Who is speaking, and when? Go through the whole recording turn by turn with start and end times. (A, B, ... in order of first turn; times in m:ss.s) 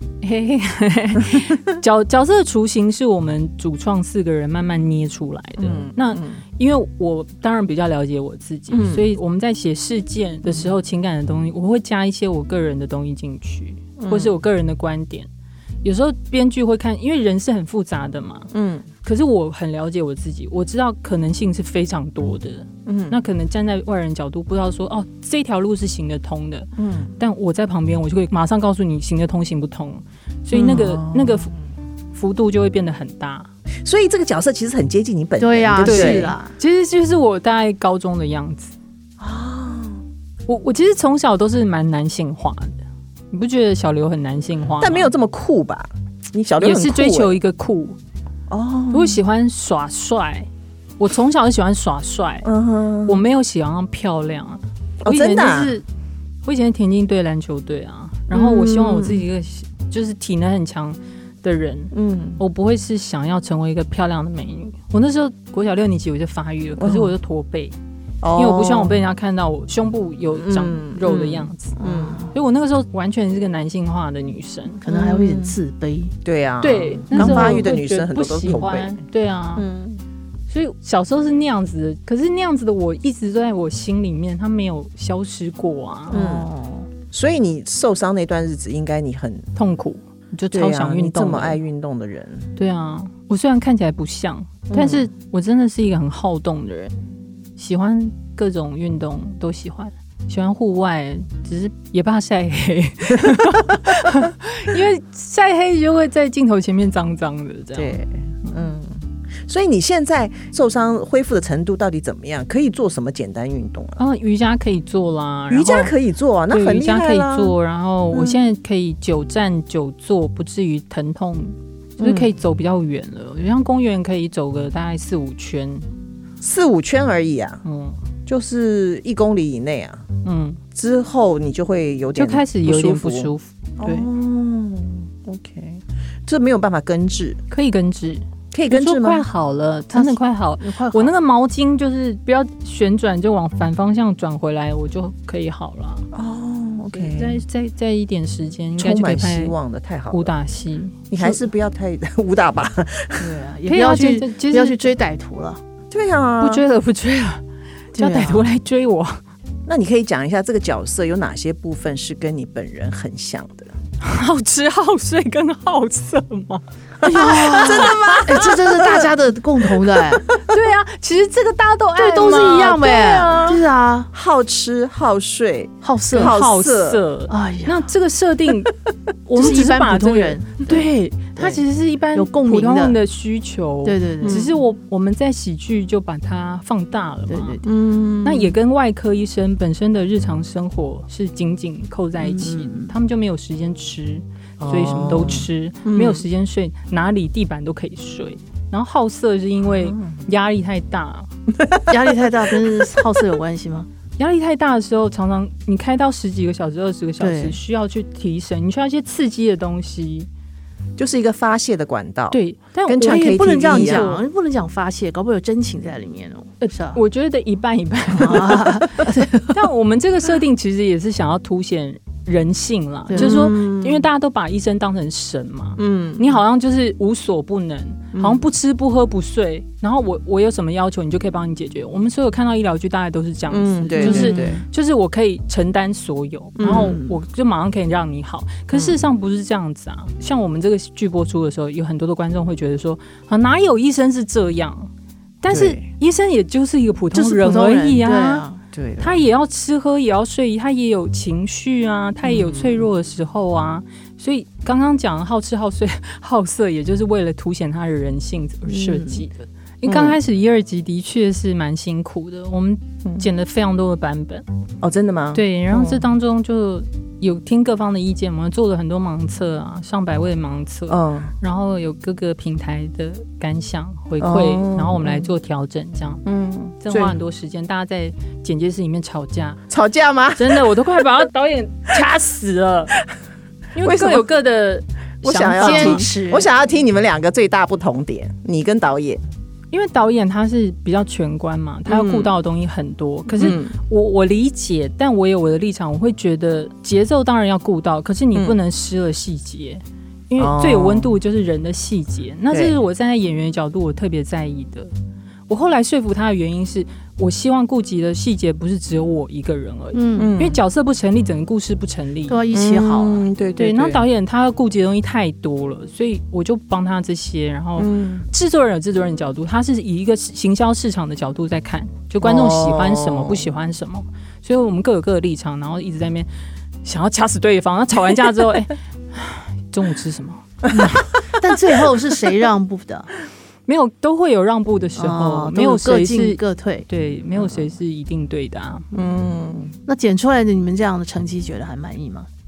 0:00.2-0:15.3 A
0:05.6-0:06.4 B
0:08.7-0:09.0 B
0:14.0-0:14.3 B
0:15.8-0:18.5 A
0:18.5-0:18.8 B
0:19.0-0:31.5 A
0:22.8-0:23.2 B
0:26.8-0:27.1 B
0:30.5-0:31.6 B
0:32.1-0:33.5 A
0:33.8-0:36.4 B
0:35.4-0:36.5 C
0:35.8-0:38.7 A
0:39.2-0:40.0 B
0:40.5-0:45.1 A
0:44.8-0:47.4 B
0:46.6-0:48.0 A
0:48.5-0:49.2 B
0:48.9-0:50.5 A
0:51.0-0:52.5 A
0:52.4-0:53.2 B
0:53.0-0:55.8 A
0:55.0-0:55.7 B
0:56.4-1:07.7 A
0:58.3-0:59.2 B
1:01.9-1:02.4 B
1:06.8-1:07.1 B
1:08.2-1:09.0 B
1:08.4-1:11.8 A
1:10.4-1:12.2 B
1:11.8-1:12.3 C
1:12.3-1:14.8 A
1:14.8-1:16.1 C
1:14.9-1:15.6 B
1:16.2-1:19.0 B
1:16.6-1:19.6 A
1:17.1-1:17.6 C
1:19.6-1:20.0 B
1:20.5-1:26.2 A
1:26.1-1:26.9 C
1:26.1-1:26.5 B
1:27.1-1:29.5 B
1:29.6-1:31.6 A
1:30.5-1:32.5 B
1:32.6-1:37.0 A
1:34.7-1:35.1 B
1:37.6-1:48.0 A
1:47.7-1:54.0 B
1:54.0-1:55.9 A
1:55.5-1:57.5 B
1:56.5-2:05.9 A
1:58.1-1:58.4 B
2:02.0-2:02.3 B
2:06.4-2:07.6 B
2:07.6-2:08.0 A
2:08.2-2:10.0 B
2:10.2-2:10.6 A
2:10.7-2:17.4 B
2:12.1-2:14.1 A
2:17.5-2:26.1 A
2:18.5-2:19.2 B
2:19.9-2:21.1 C
2:26.1-2:27.4 B
2:26.9-2:29.5 A
2:28.8-2:30.3 B
2:30.1-2:31.4 A
2:31.1-2:33.4 B
2:33.2-2:35.6 C
2:33.7-2:34.9 A
2:35.9-2:36.6 B
2:36.4-2:37.4 A
2:37.9-2:39.2 A
2:37.9-2:38.4 C
2:39.6-2:43.7 B
2:44.0-2:48.4 A
2:47.0-2:50.2 C
2:47.1-2:49.1 B
2:50.4-2:53.6 A
2:52.0-2:54.1 C
2:54.1-2:57.0 B
2:55.8-2:56.4 C
2:56.1-2:58.7 A
2:57.3-2:57.9 C
2:59.3-3:07.6 A
2:59.3-3:01.6 C
3:02.1-3:03.0 C
3:03.8-3:04.5 C
3:04.2-3:04.5 B
3:07.3-3:07.6 C
3:07.6-3:08.5 B
3:08.2-3:21.3 A
3:12.2-3:12.9 C
3:14.6-3:16.2 B
3:19.8-3:20.2 B
3:21.6-3:21.9 B
3:21.9-3:23.9 C
3:24.2-3:30.3 A
3:27.2-3:27.6 C
3:31.0-3:34.1 B
3:32.3-3:34.2 A
3:33.0-3:37.0 C
3:36.6-3:39.0 A
3:38.2-3:39.6 C
3:39.5-4:04.9 A
3:43.1-3:43.4 C
3:43.1-3:44.1 B
3:45.8-3:46.4 B
3:48.1-3:48.4 B
3:53.5-3:54.6 B
3:54.0-3:54.6 C
3:56.6-3:57.0 B
3:56.6-3:57.2 C
3:58.7-3:59.0 B
4:05.4-4:08.4 A
4:05.5-4:05.8 B
4:07.1-4:08.6 C
4:08.7-4:09.2 B
4:09.0-4:24.4 A
4:12.2-4:12.9 B
4:18.7-4:19.2 C
4:19.8-4:20.2 B
4:24.8-4:26.0 B
4:25.3-4:36.2 A
4:30.9-4:31.3 B
4:34.2-4:35.3 B
4:36.2-4:37.2 B
4:36.8-4:39.6 A
4:39.7-4:40.7 B
4:40.4-4:43.0 A
4:43.7-4:46.1 A
4:43.8-4:44.3 B
4:45.2-4:49.2 B
4:45.5-4:46.5 C
4:49.7-5:04.9 A
4:51.9-4:52.3 B
4:53.3-4:53.7 B
5:00.4-5:01.2 B
5:05.5-5:12.4 A
5:09.9-5:10.3 C
5:10.2-5:10.6 B
5:12.3-5:13.2 C
5:12.5-5:14.0 B
5:13.6-5:26.3 A
5:17.8-5:18.3 B
5:22.2-5:23.5 B
5:26.8-5:31.2 A
5:30.8-5:33.1 C
5:33.7-5:38.9 A
5:35.0-5:36.8 C
5:38.9-5:39.7 B
5:39.9-5:42.3 C